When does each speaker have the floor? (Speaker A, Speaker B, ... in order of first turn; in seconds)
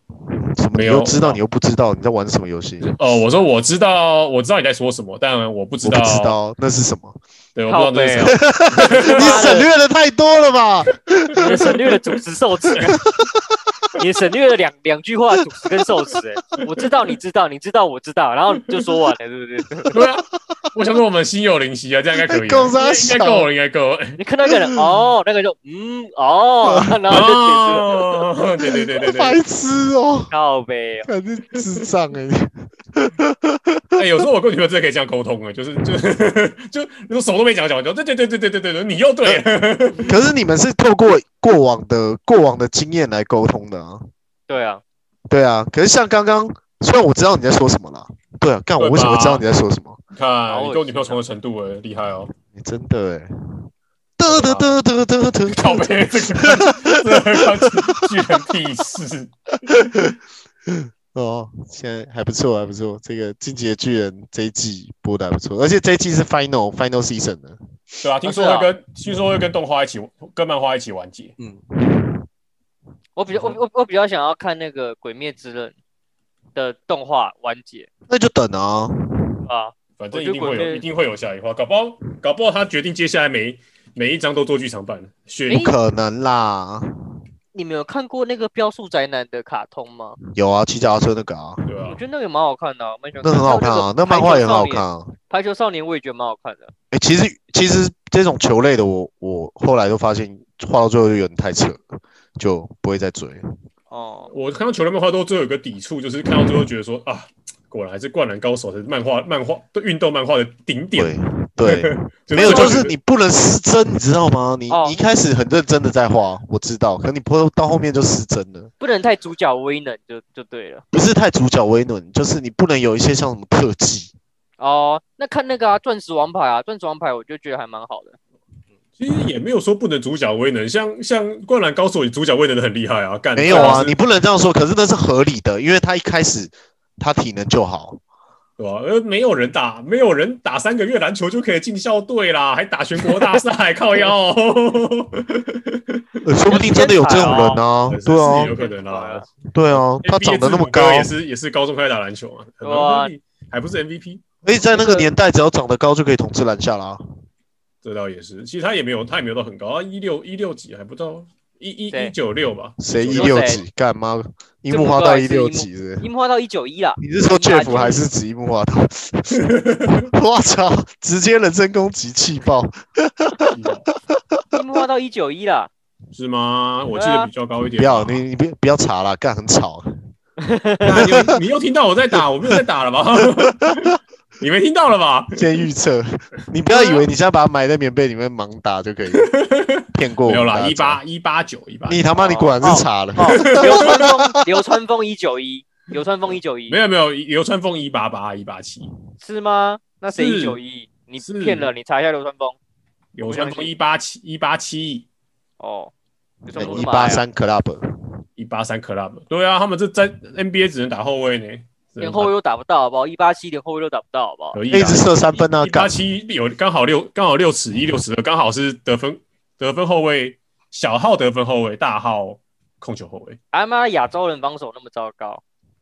Speaker A: 0.3-2.9, 5.8-7.2, 8.3-11.7, 13.0-13.6, 19.9-20.6, 22.3-23.5, 26.7-27.0, 28.7-30.3, 31.1-34.0, 40.0-44.1, 45.3-50.0, 52.5-57.7, 59.7-60.2, 60.7-67.6, 71.4-72.3, 78.1-79.4, 85.5-86.9, 90.3-91.7, 93.2-95.1, 96.9-103.5, 110.9-118.7, 120.9-124.1, 133.3-138.0, 146.2-148.6, 149.5-151.1, 154.4-157.0, 162.8-166.1, 167.0-173.6, 174.1-174.6, 177.8-180.0, 181.0-181.4, 183.4-183.7, 185.3-189.3, 189.9-191.0, 191.9-194.2, 206.5-207.8, 214.7-216.0
Speaker B: 0.8-1.4, 2.8-6.4, 7.6-9.5, 19.9-24.2, 27.1-29.4, 34.0-40.1, 48.8-49.4, 50.1-52.3, 54.3-54.8, 55.5-59.3, 68.0-71.3, 80.0-85.7, 91.7-92.0, 104.3-112.9, 129.0-134.0, 138.6-146.2, 147.9-154.2, 157.8-163.6, 169.3-170.1, 173.5-173.9, 176.1-178.2, 180.8-185.7, 189.1-192.1, 193.4-194.0, 196.7-198.9, 200.2-200.6, 201.2-201.7, 203.1-205.1, 208.4-212.3, 214.5-223.4
Speaker C: 7.7-9.7, 11.4-13.0, 14.0-19.9, 24.2-28.1, 30.3-31.1, 44.5-44.8, 50.5-51.2, 68.3-68.7, 73.2-75.8, 76.5-77.9, 79.5-80.8, 87.5-90.2, 91.9-96.7, 103.9-104.3, 112.4-112.8, 114.7-115.0, 118.8-120.8, 124.6-128.2, 133.5-133.8, 146.5-147.6, 148.2-149.3, 152.6-153.1, 154.7-155.1, 163.1-163.6, 164.7-168.1, 174.5-175.7, 176.9-177.3, 180.4-180.9, 192.2-196.8, 199.2-202.6, 203.2-203.7, 205.6-205.9, 206.4-207.2, 212.0-214.6, 223.5-225.4